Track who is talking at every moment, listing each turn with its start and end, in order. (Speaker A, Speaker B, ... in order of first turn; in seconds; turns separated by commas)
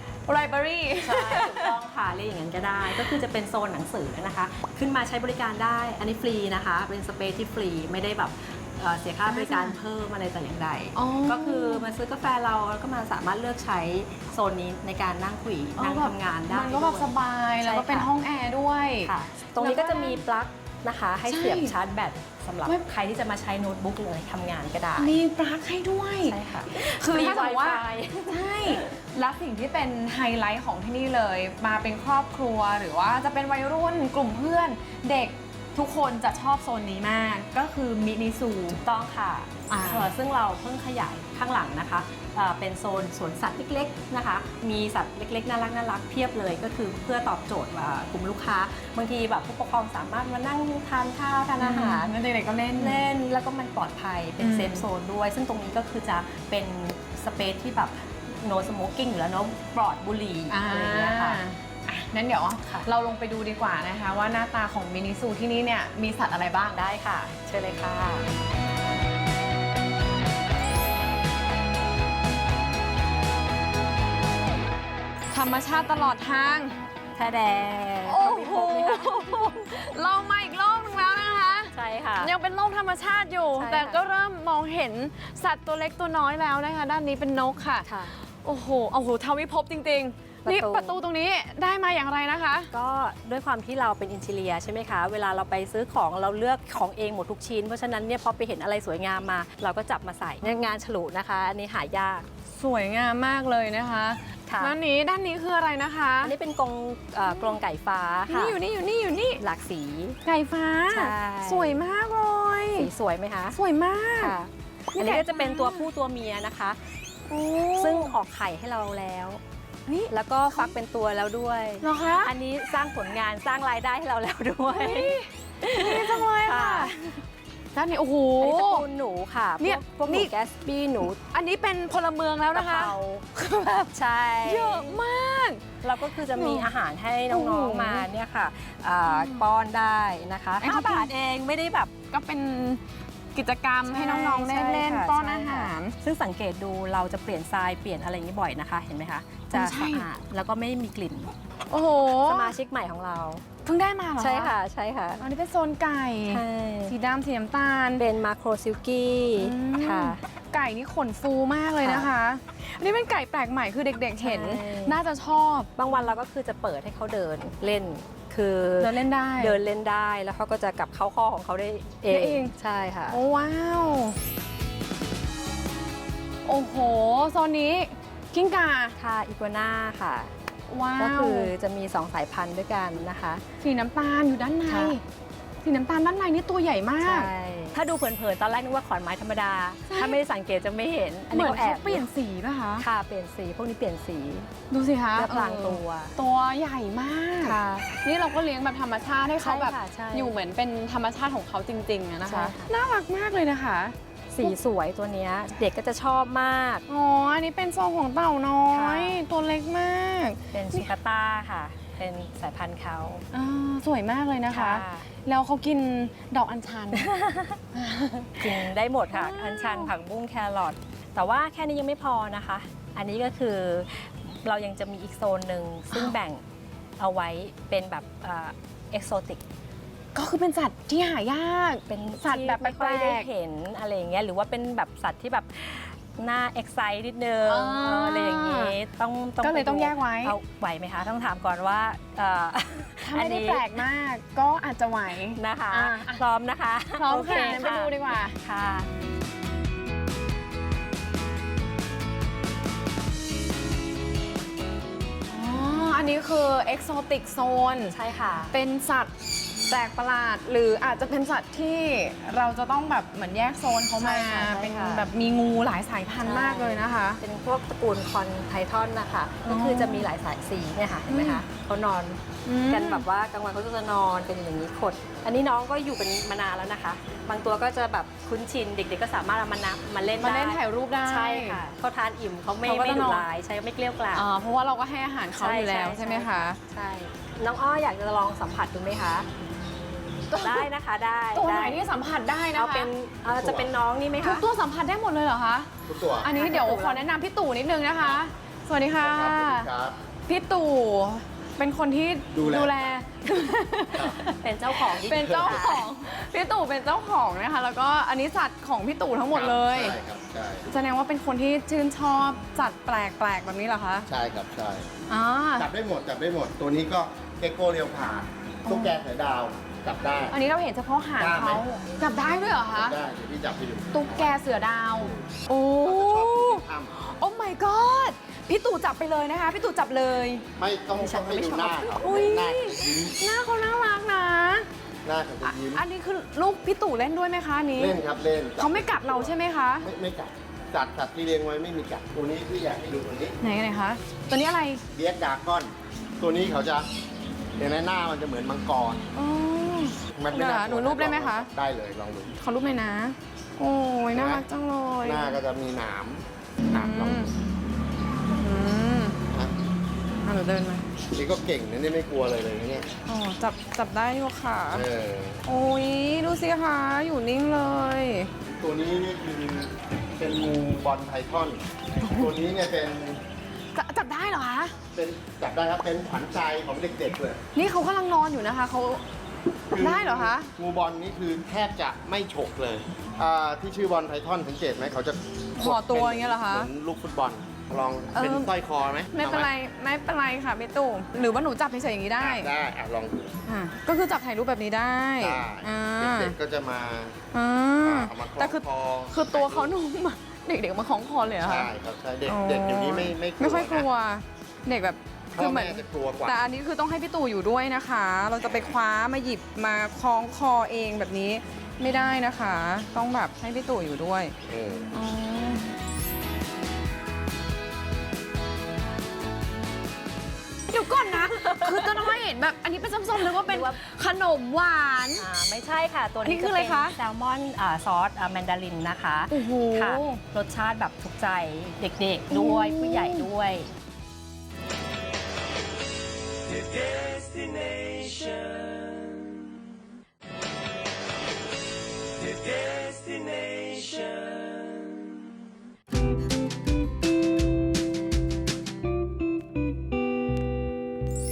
Speaker A: 0.3-1.7, Speaker B: 1.0-18.1, Speaker A: 9.3-9.8, Speaker A: 10.9-11.9, Speaker A: 15.8-20.2, Speaker B: 19.0-25.1, Speaker A: 21.3-21.8, Speaker A: 25.0-38.8, Speaker B: 26.3-28.9, Speaker B: 38.7-52.1, Speaker A: 39.7-40.1, Speaker A: 51.6-53.0, Speaker B: 52.8-61.4, Speaker A: 54.4-54.9, Speaker A: 60.5-66.8, Speaker B: 66.7-68.2, Speaker A: 75.3-76.8, Speaker B: 77.2-79.9, Speaker A: 78.0-92.7, Speaker B: 81.7-82.3, Speaker B: 83.6-84.0, Speaker B: 87.8-88.1, Speaker B: 90.5-91.0, Speaker B: 92.7-102.3, Speaker A: 100.4-100.7, Speaker A: 102.5-106.3, Speaker B: 104.5-104.7, Speaker B: 106.2-108.6, Speaker A: 108.3-109.4, Speaker B: 109.4-110.2, Speaker A: 110.2-112.9, Speaker B: 110.9-111.8, Speaker B: 112.8-113.6, Speaker A: 113.5-114.3, Speaker B: 114.2-116.8, Speaker A: 114.9-115.9, Speaker A: 117.3-118.1, Speaker B: 117.8-119.4, Speaker A: 119.8-120.7, Speaker B: 120.1-127.1, Speaker A: 121.8-122.3, Speaker A: 124.7-127.2, Speaker A: 127.7-128.8, Speaker B: 128.4-131.2, Speaker A: 129.6-130.3, Speaker A: 131.1-133.9, Speaker B: 132.5-133.2, Speaker B: 133.9-135.0, Speaker A: 134.4-135.6, Speaker B: 135.8-141.9, Speaker A: 136.3-136.7, Speaker A: 137.3-138.1, Speaker A: 139.1-139.4, Speaker A: 140.6-141.1, Speaker A: 142.1-142.8, Speaker A: 143.3-145.9, Speaker B: 143.8-151.3, Speaker A: 149.5-150.1, Speaker A: 151.7-152.6, Speaker B: 152.2-153.4, Speaker A: 153.6-154.5, Speaker B: 154.2-155.2, Speaker A: 155.2-158.0, Speaker B: 156.3-156.9, Speaker B: 158.0-160.2, Speaker A: 159.4-165.7, Speaker B: 161.8-162.1, Speaker B: 164.2-164.9, Speaker B: 165.8-173.2, Speaker A: 168.8-169.6, Speaker A: 172.1-172.5, Speaker A: 173.1-174.2, Speaker A: 176.4-178.9, Speaker B: 179.0-180.3, Speaker A: 180.7-181.5, Speaker B: 181.0-183.4, Speaker A: 183.6-185.0, Speaker B: 184.7-184.9, Speaker A: 185.6-187.3, Speaker B: 187.0-192.1, Speaker A: 189.9-190.2, Speaker A: 191.3-192.8, Speaker B: 192.8-194.5, Speaker A: 194.7-204.5, Speaker B: 195.2-196.1, Speaker B: 197.4-198.0, Speaker B: 199.4-200.3, Speaker B: 202.2-202.7, Speaker B: 204.3-206.8, Speaker A: 206.9-210.9, Speaker B: 208.7-209.2, Speaker B: 210.5-213.2, Speaker A: 213.3-217.1, Speaker B: 214.5-215.1, Speaker B: 216.9-217.6, Speaker A: 217.7-219.9, Speaker B: 218.4-226.4, Speaker B: 227.0-229.4, Speaker A: 230.1-233.3, Speaker B: 231.9-243.8, Speaker A: 237.4-238.7, Speaker A: 239.4-240.3, Speaker A: 243.1-246.2, Speaker B: 245.3-248.9, Speaker A: 246.9-248.4, Speaker A: 255.3-257.9, Speaker B: 257.9-258.5, Speaker A: 258.5-259.1, Speaker A: 259.7-267.2, Speaker B: 264.0-265.1, Speaker B: 266.2-284.2, Speaker A: 269.4-270.1, Speaker A: 271.1-271.4, Speaker A: 272.4-273.0, Speaker A: 280.2-281.6, Speaker A: 282.6-283.3, Speaker A: 284.1-286.6, Speaker B: 285.4-289.3, Speaker A: 290.3-290.7, Speaker B: 290.4-291.8, Speaker A: 291.3-292.9, Speaker B: 292.5-294.4, Speaker C: 293.4-293.7, Speaker A: 294.2-299.7, Speaker C: 295.9-296.3, Speaker B: 296.3-297.0, Speaker C: 299.0-300.0, Speaker A: 300.3-310.0, Speaker C: 302.3-302.8, Speaker C: 303.9-304.2, Speaker B: 304.0-305.9, Speaker C: 305.2-305.6, Speaker C: 309.3-310.7, Speaker A: 310.7-314.1, Speaker C: 314.1-314.9, Speaker A: 315.1-315.7, Speaker C: 315.6-320.4, Speaker A: 318.7-318.9, Speaker A: 320.3-322.9, Speaker C: 321.2-321.6, Speaker C: 322.7-324.4, Speaker A: 323.9-330.4, Speaker C: 325.0-325.3, Speaker C: 325.8-326.9, Speaker C: 330.6-333.2, Speaker B: 330.9-332.0, Speaker A: 332.0-334.7, Speaker C: 335.0-335.8, Speaker A: 335.4-338.0, Speaker C: 337.8-343.4, Speaker A: 338.6-339.9, Speaker A: 343.4-344.8, Speaker C: 344.9-346.9, Speaker C: 347.6-349.1, Speaker A: 349.1-351.5, Speaker C: 350.1-352.3, Speaker A: 352.4-355.4, Speaker C: 354.1-354.4, Speaker C: 355.0-357.3, Speaker A: 356.7-357.4, Speaker A: 358.4-359.2, Speaker A: 360.2-360.9, Speaker C: 361.1-362.9, Speaker A: 363.1-364.9, Speaker C: 364.7-365.4, Speaker A: 365.4-368.3, Speaker C: 368.6-373.2, Speaker A: 373.7-374.8, Speaker C: 374.9-377.4, Speaker A: 377.5-379.0, Speaker C: 379.7-389.5, Speaker A: 379.8-380.5, Speaker A: 385.6-386.7, Speaker A: 388.1-388.5, Speaker A: 389.1-392.5, Speaker C: 392.2-393.3, Speaker A: 393.5-396.4, Speaker C: 395.2-397.2, Speaker A: 397.3-401.7, Speaker C: 397.8-399.7, Speaker C: 401.4-403.9, Speaker A: 402.3-414.3, Speaker C: 405.3-406.4, Speaker C: 414.5-414.9, Speaker A: 414.9-415.7, Speaker A: 420.7-425.2, Speaker B: 421.1-422.1, Speaker B: 423.2-423.8, Speaker B: 425.2-433.7, Speaker A: 426.2-427.0, Speaker A: 429.3-430.2, Speaker A: 432.3-433.3